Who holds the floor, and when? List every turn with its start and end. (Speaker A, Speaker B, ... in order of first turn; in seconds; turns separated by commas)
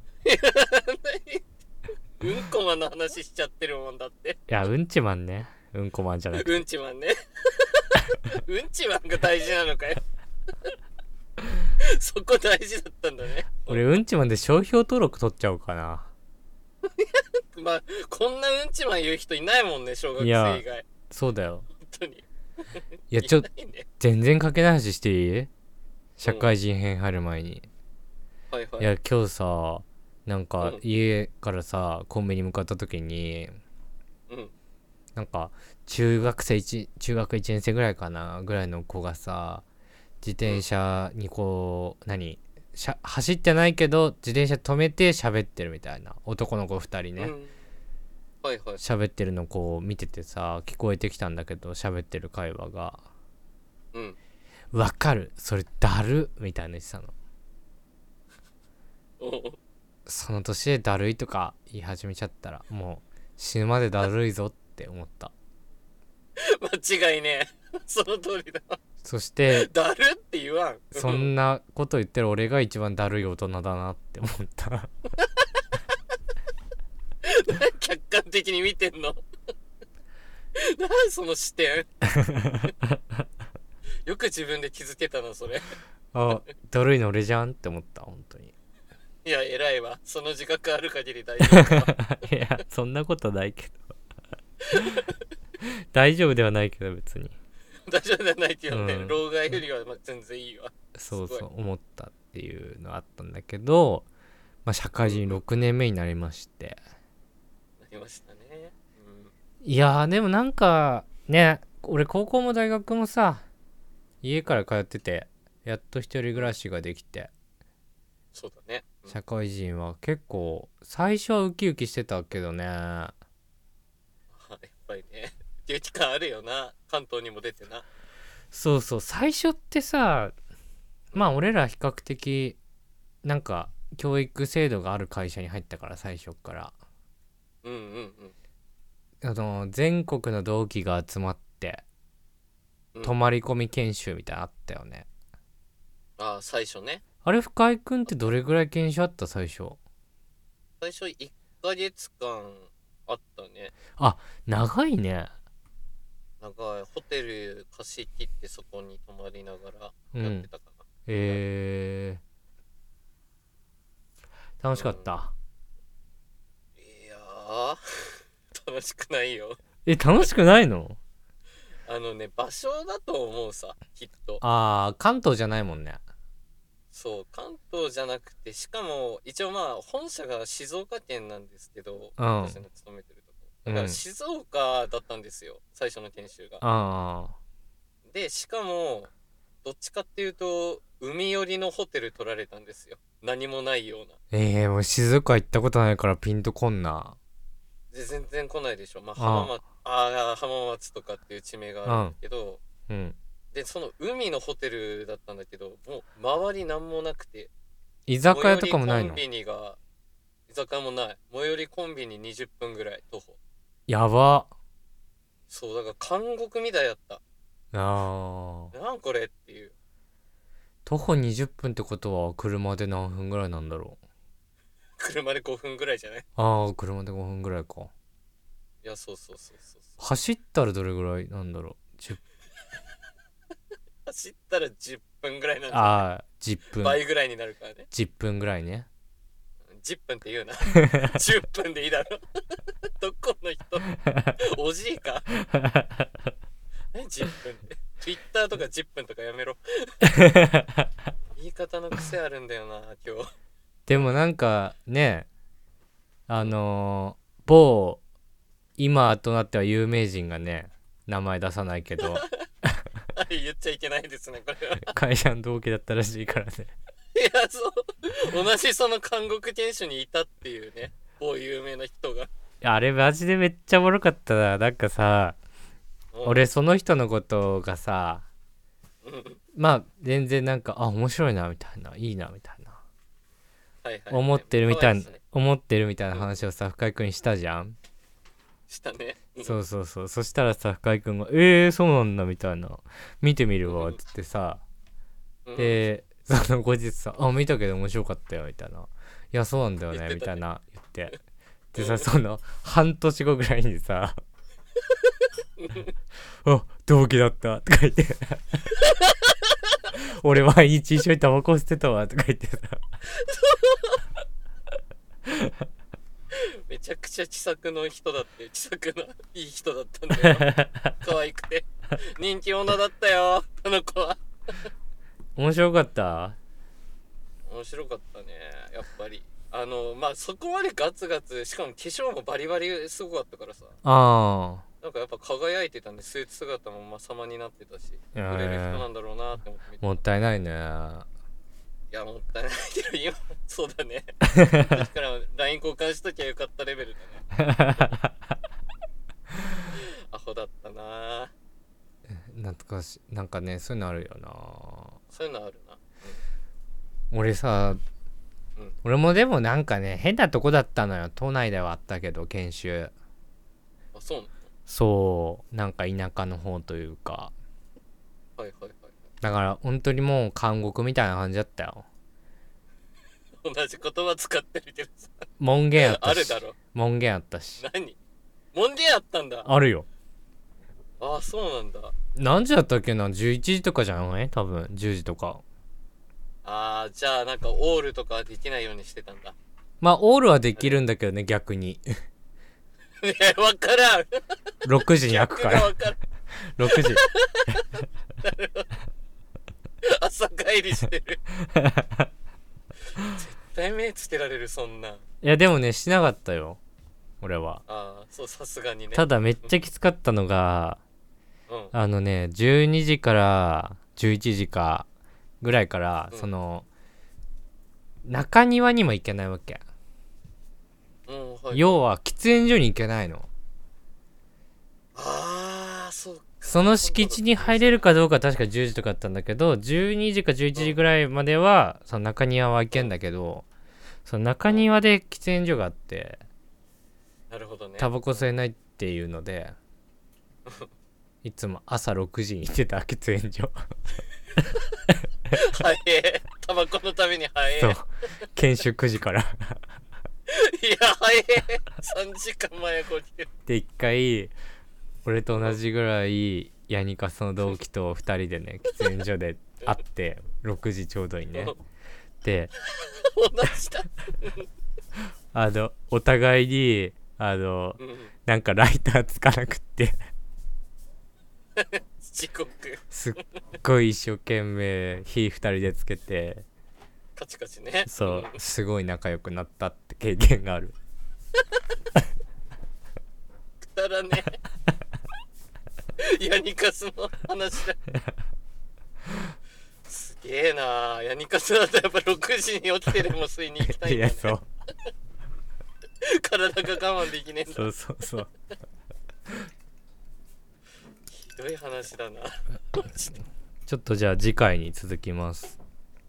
Speaker A: 0.2-1.4, Speaker A: 2.2-4.5, Speaker B: 4.5-6.6, Speaker A: 6.3-10.0, Speaker A: 11.8-13.8, Speaker B: 13.7-16.1, Speaker A: 16.8-20.8, Speaker B: 20.2-21.7, Speaker A: 21.8-22.2, Speaker A: 22.7-23.9, Speaker B: 23.1-23.5, Speaker B: 24.0-25.5, Speaker B: 26.2-27.7, Speaker A: 26.2-26.5, Speaker A: 28.5-28.9, Speaker B: 28.8-33.6, Speaker B: 35.1-39.6, Speaker B: 40.2-47.3, Speaker A: 47.2-47.6, Speaker A: 48.4-48.8, Speaker B: 48.8-53.0, Speaker B: 54.7-57.1, Speaker A: 59.2-59.6, Speaker B: 60.1-65.3, Speaker A: 66.4-68.8, Speaker B: 69.0-69.7, Speaker A: 69.5-71.3, Speaker B: 70.9-74.9, Speaker A: 75.2-75.7, Speaker A: 77.2-79.2, Speaker A: 80.5-81.9, Speaker B: 82.2-82.7, Speaker A: 84.0-85.7, Speaker B: 86.1-88.5, Speaker A: 89.2-92.2, Speaker B: 91.5-93.9, Speaker A: 94.7-95.1, Speaker B: 95.9-97.3, Speaker A: 97.8-101.4, Speaker B: 98.7-99.2, Speaker B: 100.9-104.1, Speaker B: 104.7-106.8, Speaker A: 105.0-105.4, Speaker A: 107.8-109.3, Speaker B: 109.6-113.4, Speaker B: 114.2-117.3, Speaker A: 118.3-119.2, Speaker B: 119.1-123.1, Speaker A: 124.3-127.8, Speaker B: 128.5-130.3, Speaker B: 131.1-132.6, Speaker B: 133.2-136.7, Speaker A: 137.6-138.3, Speaker B: 139.2-141.8, Speaker B: 143.0-145.1, Speaker A: 146.2-147.0, Speaker B: 147.2-149.8, Speaker A: 150.8-153.8, Speaker B: 154.0-155.3, Speaker A: 156.4-161.4, Speaker B: 160.1-160.5, Speaker B: 161.1-162.2, Speaker B: 164.6-165.3, Speaker A: 164.7-165.1, Speaker A: 166.8-169.6, Speaker B: 169.8-171.0, Speaker A: 171.8-174.4, Speaker B: 174.4-176.0, Speaker A: 176.9-186.6, Speaker B: 182.2-182.6, Speaker B: 183.6-184.0, Speaker B: 186.6-187.3, Speaker A: 188.1-189.1, Speaker A: 189.6-194.2, Speaker B: 194.3-197.2, Speaker A: 197.9-202.6, Speaker B: 199.2-199.5, Speaker B: 201.8-202.2, Speaker B: 202.9-203.2, Speaker A: 203.5-207.5, Speaker B: 208.1-209.2, Speaker A: 208.3-209.8, Speaker A: 210.5-213.4, Speaker B: 213.9-214.5, Speaker A: 215.5-217.2, Speaker B: 217.7-218.7, Speaker A: 218.7-219.7, Speaker B: 220.8-224.0, Speaker A: 225.0-226.2, Speaker B: 226.3-227.9, Speaker A: 228.8-230.0, Speaker B: 230.0-232.2, Speaker A: 234.1-236.0, Speaker B: 235.7-237.0, Speaker A: 236.8-237.9, Speaker B: 237.9-238.9, Speaker A: 239.7-245.3, Speaker B: 245.5-246.0, Speaker A: 246.9-250.2, Speaker B: 250.4-250.7, Speaker A: 251.3-253.3, Speaker B: 253.9-255.3, Speaker B: 256.3-258.0, Speaker B: 258.8-262.2, Speaker A: 262.0-262.4, Speaker A: 263.1-264.9, Speaker B: 264.9-266.7, Speaker A: 267.1-272.3, Speaker B: 272.6-275.4, Speaker A: 276.1-276.4, Speaker B: 276.2-278.2, Speaker A: 279.0-279.4, Speaker B: 279.5-282.8, Speaker A: 283.8-285.2, Speaker B: 284.1-287.8, Speaker A: 286.1-286.4, Speaker A: 288.7-289.6, Speaker B: 289.4-294.6, Speaker A: 293.7-294.0, Speaker A: 295.4-295.8, Speaker B: 295.6-301.1, Speaker A: 299.9-300.4, Speaker B: 301.7-304.2, Speaker A: 301.8-302.0, Speaker A: 305.6-305.9, Speaker B: 306.4-308.6, Speaker A: 308.8-309.7, Speaker B: 309.9-312.8, Speaker A: 313.1-314.0, Speaker A: 316.3-324.7, Speaker B: 320.2-320.8, Speaker B: 325.4-326.4, Speaker A: 327.5-333.8, Speaker B: 333.8-334.6, Speaker A: 334.8-340.0, Speaker B: 338.1-338.9, Speaker B: 339.8-341.1, Speaker A: 341.9-347.9, Speaker B: 347.4-347.9, Speaker A: 349.7-351.3, Speaker B: 352.1-355.0, Speaker A: 355.1-356.2, Speaker B: 357.1-357.8, Speaker B: 358.8-362.9, Speaker A: 363.9-364.4, Speaker B: 364.7-367.3, Speaker A: 368.4-369.0, Speaker B: 369.2-371.9, Speaker A: 373.4-376.6, Speaker B: 375.4-377.6, Speaker A: 377.6-378.0, Speaker A: 378.5-379.5, Speaker B: 379.4-379.9, Speaker A: 381.0-381.9, Speaker B: 382.1-385.4, Speaker A: 386.4-389.4, Speaker B: 389.8-391.9, Speaker A: 393.0-394.2, Speaker B: 394.6-395.7, Speaker A: 394.8-396.0, Speaker B: 396.4-397.0, Speaker A: 396.7-398.7, Speaker A: 399.8-401.2, Speaker B: 401.5-401.9, Speaker A: 403.1-405.0, Speaker B: 405.2-406.6, Speaker B: 407.2-407.6, Speaker A: 407.7-409.5, Speaker B: 408.9-410.8, Speaker A: 411.5-411.7, Speaker B: 411.7-414.9, Speaker B: 415.4-416.7, Speaker B: 418.0-419.6, Speaker A: 421.1-421.8, Speaker B: 421.5-423.3, Speaker A: 424.9-427.9, Speaker B: 426.5-433.5, Speaker B: 434.1-436.2, Speaker A: 437.3-438.3, Speaker B: 437.8-439.6, Speaker B: 441.2-443.6, Speaker A: 445.3-447.8, Speaker B: 447.6-449.6, Speaker A: 450.3-453.3, Speaker B: 453.5-454.3, Speaker B: 455.0-461.5, Speaker A: 455.3-455.6, Speaker B: 462.2-462.5, Speaker A: 462.6-464.5, Speaker B: 465.3-470.0, Speaker A: 467.8-468.1, Speaker A: 471.6-472.8, Speaker B: 472.9-476.4, Speaker A: 477.1-478.3, Speaker B: 477.9-480.7, Speaker A: 483.6-484.4, Speaker A: 486.0-487.8, Speaker A: 489.9-494.4, Speaker B: 493.6-494.4, Speaker A: 496.0-497.7, Speaker B: 497.5-498.3, Speaker A: 501.1-503.1, Speaker B: 503.7-505.6